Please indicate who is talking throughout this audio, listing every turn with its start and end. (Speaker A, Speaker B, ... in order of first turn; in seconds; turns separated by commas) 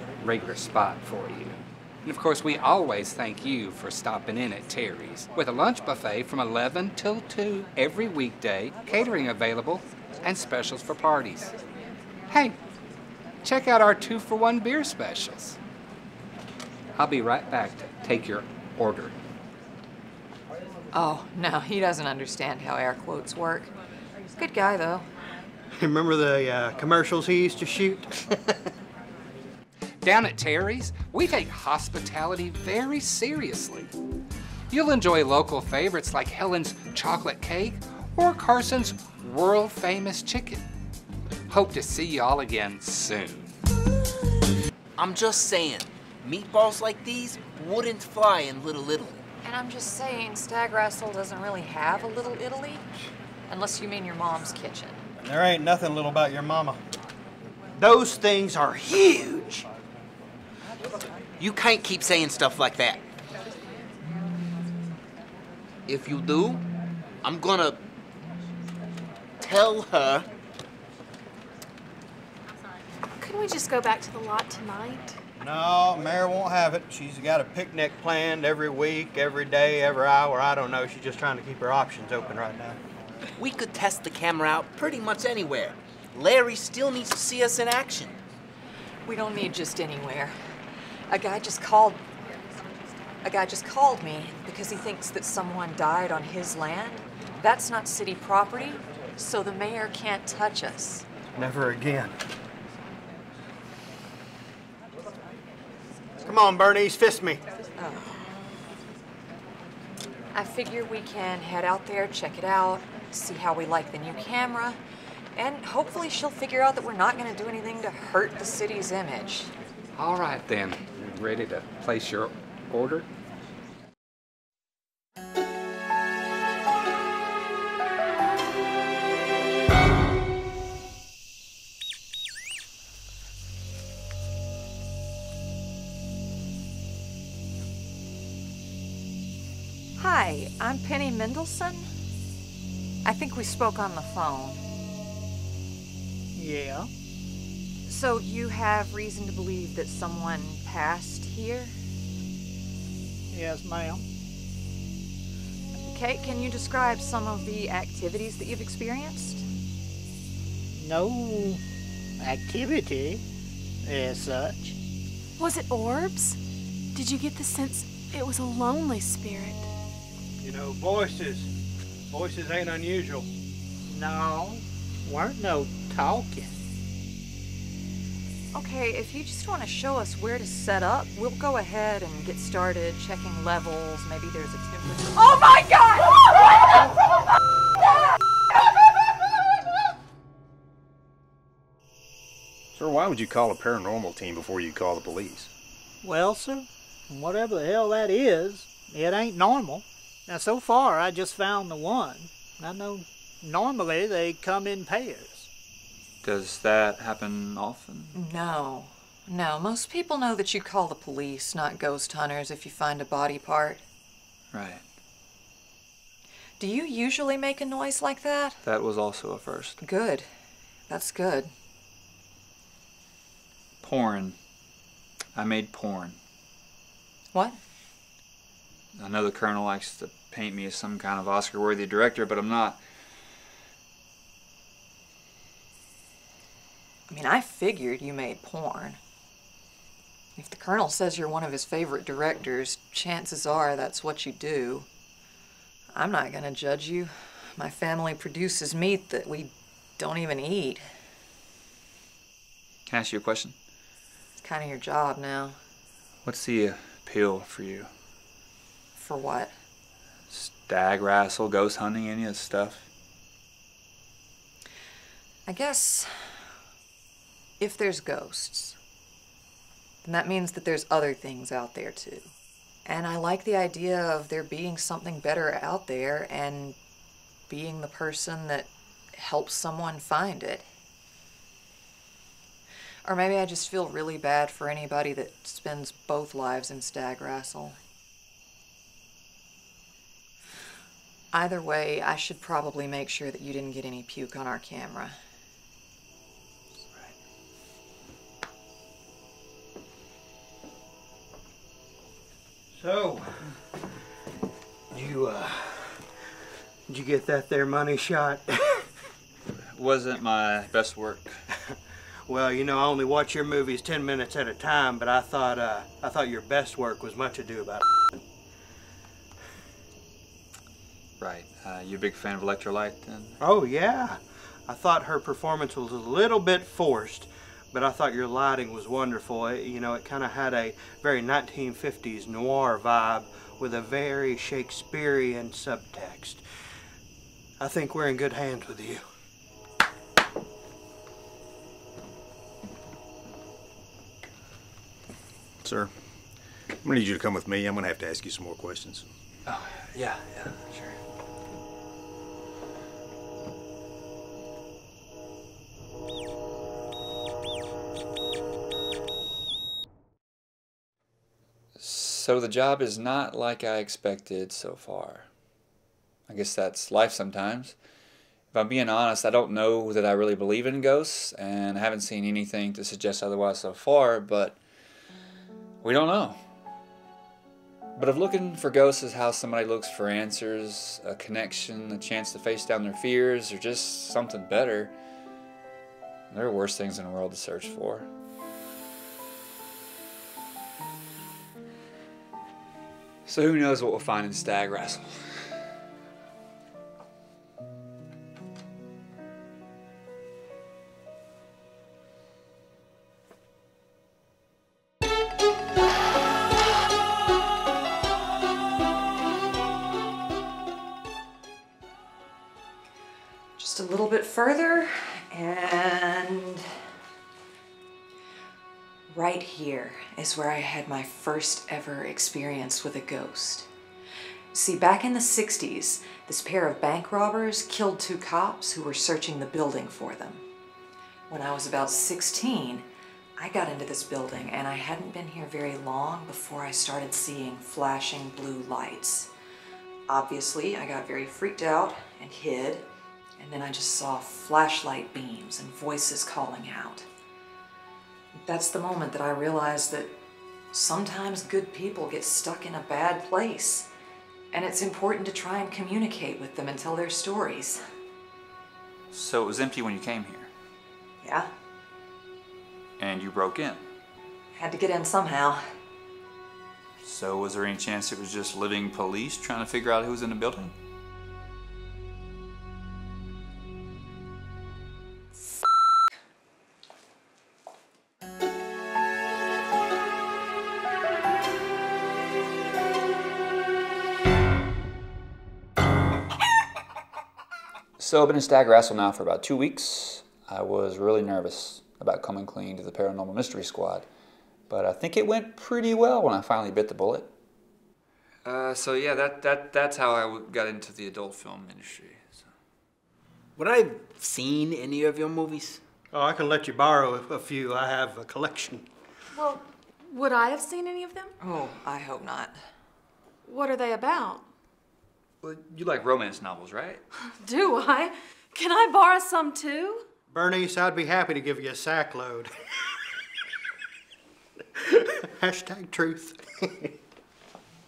Speaker A: 0.2-11.6, Speaker A: 12.3-12.6, Speaker A: 13.4-15.6, Speaker A: 16.9-19.1, Speaker B: 20.9-23.7, Speaker B: 24.4-25.1, Speaker C: 25.8-28.6, Speaker A: 30.0-33.9, Speaker A: 34.7-40.6, Speaker A: 41.5-43.5, Speaker D: 45.0-49.2, Speaker B: 49.4-52.8, Speaker B: 53.5-55.1, Speaker C: 55.2-56.8, Speaker C: 57.8-59.7, Speaker D: 61.4-63.0, Speaker D: 65.9-66.6, Speaker D: 67.2-67.8, Speaker D: 69.4-70.3, Speaker E: 73.2-75.2, Speaker C: 75.4-82.8, Speaker D: 83.4-88.2, Speaker B: 89.1-90.3, Speaker B: 91.1-92.0, Speaker B: 93.2-101.1, Speaker C: 101.4-102.2, Speaker C: 106.2-107.4, Speaker B: 107.8-108.2, Speaker B: 110.3-114.8, Speaker B: 115.4-119.5, Speaker A: 119.9-123.1, Speaker B: 140.0-141.9, Speaker B: 143.1-144.6, Speaker F: 146.3-146.9, Speaker B: 147.9-151.8, Speaker F: 153.3-154.0, Speaker B: 155.9-159.5, Speaker F: 160.8-161.6, Speaker F: 162.2-163.2, Speaker F: 163.8-164.7, Speaker E: 165.4-166.4, Speaker E: 166.9-169.7, Speaker C: 170.4-171.5, Speaker C: 172.1-173.3, Speaker F: 173.9-176.5, Speaker B: 178.5-186.7, Speaker G: 192.7-195.5, Speaker F: 196.0-205.5, Speaker H: 206.2-208.2, Speaker B: 208.1-213.8, Speaker H: 214.5-214.8, Speaker B: 216.6-218.6, Speaker H: 218.6-219.8, Speaker B: 219.8-220.3, Speaker B: 220.9-221.5, Speaker H: 223.8-224.4, Speaker H: 225.3-226.2, Speaker B: 227.3-227.6, Speaker H: 228.9-232.8, Speaker B: 237.1-239.0, Speaker B: 240.4-244.9, Speaker B: 245.9-250.9, Speaker H: 252.9-253.6, Speaker B: 254.4-255.6, Speaker H: 256.2-257.9, Speaker B: 259.0-259.6, Speaker H: 260.3-262.9, Speaker B: 265.5-266.5, Speaker B: 267.6-268.8, Speaker B: 270.0-272.3, Speaker B: 272.9-276.8, Speaker B: 277.5-280.7, Speaker B: 283.1-287.8, Speaker B: 291.3-295.2, Speaker C: 302.7-303.4, Speaker C: 304.9-306.1, Speaker C: 306.9-308.9, Speaker H: 309.6-311.4, Speaker C: 312.3-317.9, Speaker H: 321.2-323.4, Speaker C: 323.4-336.4, Speaker C: 337.6-339.0, Speaker G: 345.6-345.9, Speaker G: 346.8-349.1, Speaker H: 349.5-350.4, Speaker H: 361.8-365.3, Speaker H: 366.3-367.8, Speaker H: 368.5-374.6, Speaker H: 375.8-376.4, Speaker H: 378.0-384.9, Speaker H: 386.3-388.1, Speaker H: 393.2-395.6, Speaker B: 413.6-416.7, Speaker B: 419.1-423.7, Speaker B: 424.5-430.4, Speaker B: 431.3-432.9, Speaker B: 433.4-439.3, Speaker B: 440.1-442.9, Speaker B: 443.4-447.1, Speaker B: 448.5-450.1, Speaker B: 450.7-453.9, Speaker B: 454.5-457.8, Speaker H: 459.1-460.5, Speaker B: 461.2-461.5, Speaker H: 463.0-463.8, Speaker B: 464.5-465.7, Speaker H: 467.0-470.7, Speaker H: 488.0-494.1, Speaker H: 494.7-497.3, Speaker H: 498.4-502.5, Speaker D: 503.6-505.8, Speaker C: 506.1-508.9, Speaker E: 509.4-511.3, Speaker B: 511.4-512.6, Speaker E: 513.5-514.5, Speaker H: 515.4-517.0, Speaker E: 517.3-520.0, Speaker C: 520.3-522.5, Speaker C: 524.8-527.0